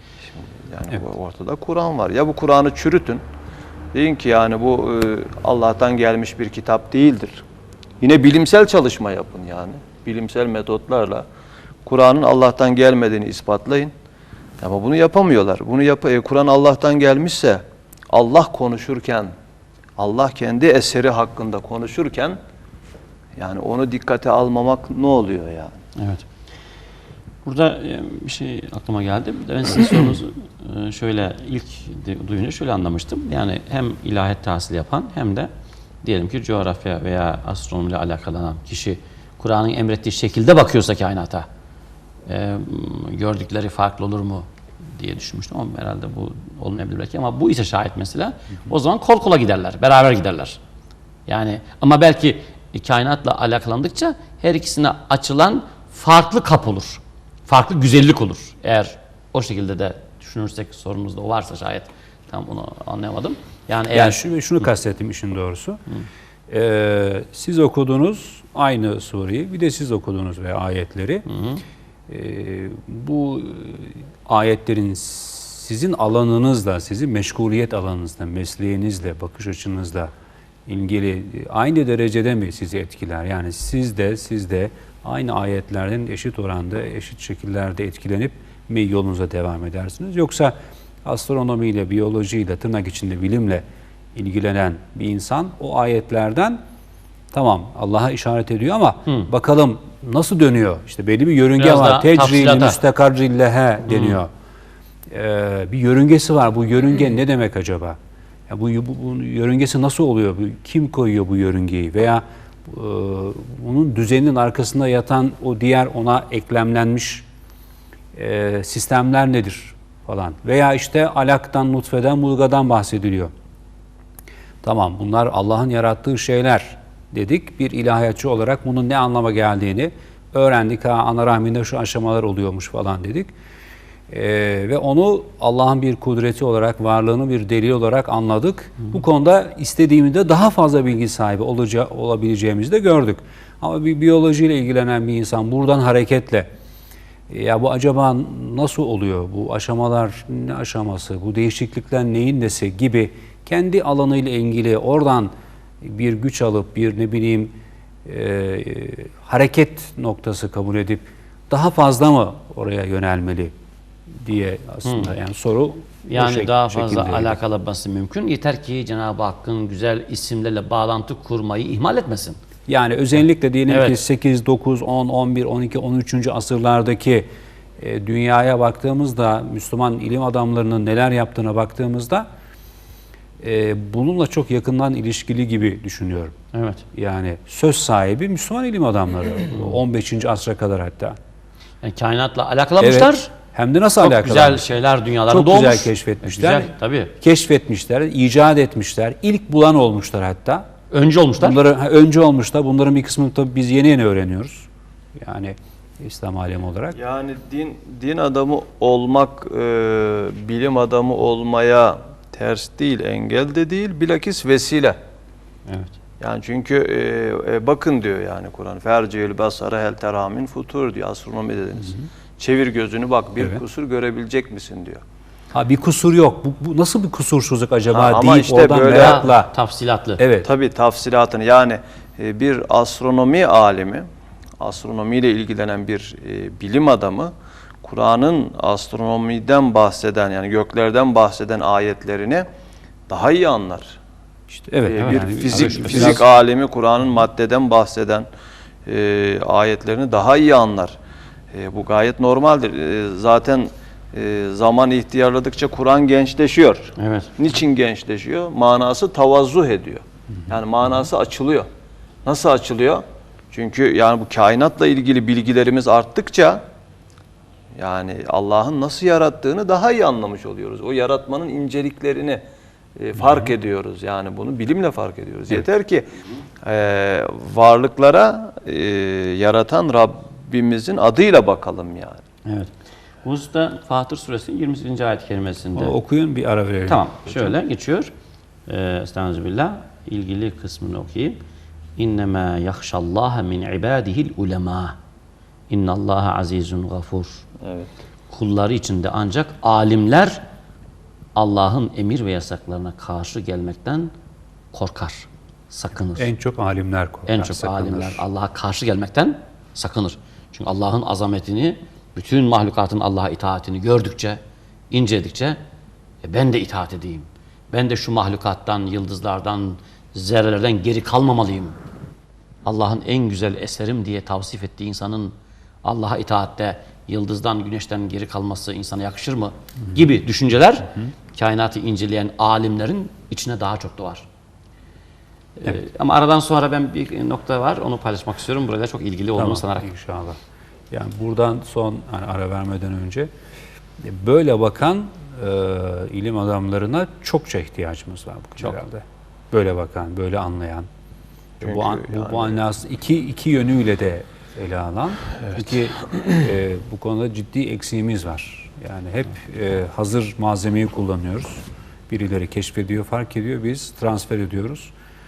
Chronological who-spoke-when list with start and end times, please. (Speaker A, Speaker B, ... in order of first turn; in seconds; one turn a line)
Speaker A: 0.3-3.2
Speaker A: 3.9-7.5
Speaker A: 8.0-11.3
Speaker A: 11.8-13.9
Speaker A: 14.6-19.3
Speaker A: 20.0-22.4
Speaker A: 23.4-25.8
Speaker B: 26.0-26.2
Speaker B: 27.4-35.5
Speaker B: 36.0-41.5
Speaker B: 42.3-50.6
Speaker B: 51.3-64.2
Speaker C: 63.9-65.8
Speaker C: 66.5-71.3
Speaker B: 71.3-71.6
Speaker C: 72.1-80.1
Speaker C: 80.7-93.6
Speaker C: 94.2-96.6
Speaker C: 97.3-104.3
Speaker B: 101.6-102.8
Speaker B: 103.9-104.2
Speaker C: 105.1-108.0
Speaker C: 108.5-117.3
Speaker C: 118.2-123.3
Speaker C: 124.6-133.3
Speaker C: 134.1-146.5
Speaker C: 147.3-157.6
Speaker C: 158.1-163.5
Speaker C: 164.2-167.4
Speaker B: 164.8-165.2
Speaker B: 166.1-172.4
Speaker C: 172.7-177.3
Speaker B: 173.7-174.0
Speaker C: 177.8-182.3
Speaker C: 183.4-186.3
Speaker B: 186.5-186.8
Speaker C: 186.9-191.2
Speaker B: 191.8-193.3
Speaker C: 192.8-194.7
Speaker B: 194.0-197.1
Speaker C: 195.3-200.7
Speaker B: 200.9-201.6
Speaker C: 201.4-207.0
Speaker A: 206.9-215.0
Speaker B: 215.7-215.9
Speaker A: 216.2-225.0
Speaker C: 225.5-229.5
Speaker A: 227.9-229.3
Speaker B: 228.9-230.2
Speaker C: 230.2-230.5
Speaker A: 230.4-234.1
Speaker A: 234.6-237.3
Speaker A: 237.8-242.5
Speaker A: 243.1-244.0
Speaker C: 244.5-246.2
Speaker A: 244.9-248.3
Speaker B: 245.5-246.2
Speaker A: 248.9-251.0
Speaker A: 251.5-261.7
Speaker B: 257.0-257.3
Speaker A: 262.2-266.6
Speaker A: 267.8-272.4
Speaker A: 273.0-276.1
Speaker C: 273.2-273.5
Speaker A: 276.6-282.2
Speaker B: 282.5-282.7
Speaker B: 283.2-286.0
Speaker C: 285.8-287.6
Speaker B: 286.9-288.1
Speaker B: 288.7-291.4
Speaker B: 292.0-294.9
Speaker B: 295.7-297.4
Speaker A: 297.6-297.9
Speaker B: 298.3-300.4
Speaker B: 301.4-304.1
Speaker B: 304.7-306.3
Speaker C: 306.2-308.2
Speaker B: 307.3-314.4
Speaker B: 314.9-315.6
Speaker B: 316.2-321.8
Speaker B: 322.6-334.2
Speaker B: 335.6-339.9
Speaker C: 339.4-340.4
Speaker C: 340.9-343.3
Speaker C: 344.0-350.9
Speaker A: 351.6-352.6
Speaker C: 351.6-364.9